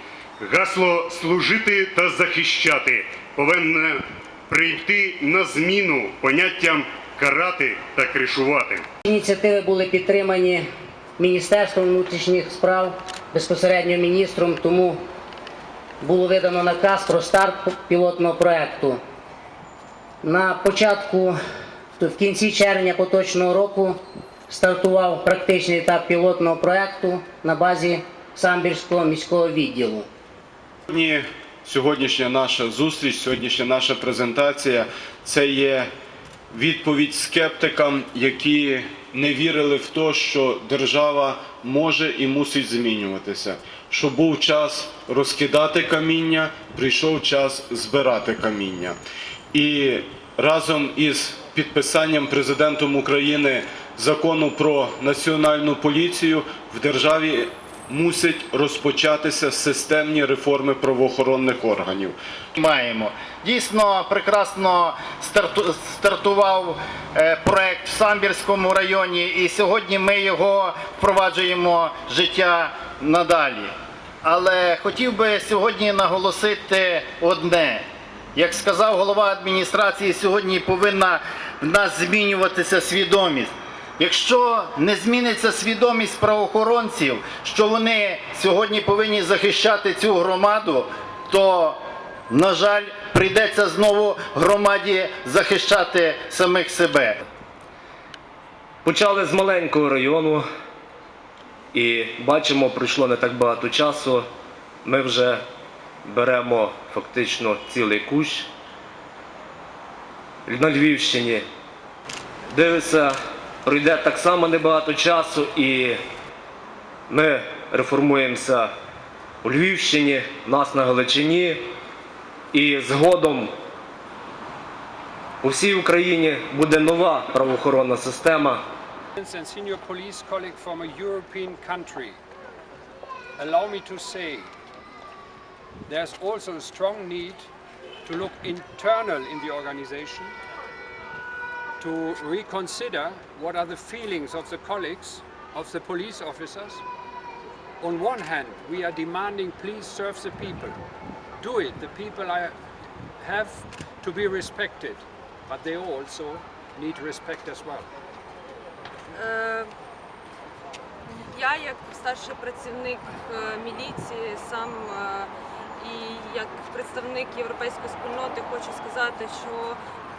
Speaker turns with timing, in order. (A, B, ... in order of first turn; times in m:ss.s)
0:00.4-0:08.8 A
0:09.0-0:10.6 B
0:11.2-0:15.0 B
0:16.0-0:19.0 B
0:20.2-0:21.4 B
0:22.0-0:30.1 B
0:30.9-0:35.9 C
0:36.5-0:49.0 C
0:49.5-1:02.2 C
1:02.6-1:13.7 D
1:14.2-1:17.8 D
1:18.3-1:37.2 D
1:38.8-1:40.4 E
1:41.7-1:44.3 E
1:44.8-1:45.4 E
1:46.0-1:48.5 E
1:50.4-1:51.4 E
1:52.5-1:56.0 E
1:57.1-1:58.7 E
1:59.4-2:01.7 E
2:02.5-2:03.5 E
2:05.4-2:08.6 E
2:09.2-2:12.2 F
2:13.4-2:14.5 F
2:15.9-2:17.5 F
2:18.0-2:20.4 F
2:21.8-2:26.8 F
2:27.8-2:30.8 F
2:31.4-2:32.5 F
2:33.2-2:37.9 F
2:39.1-2:39.7 G
2:41.0-2:49.8 G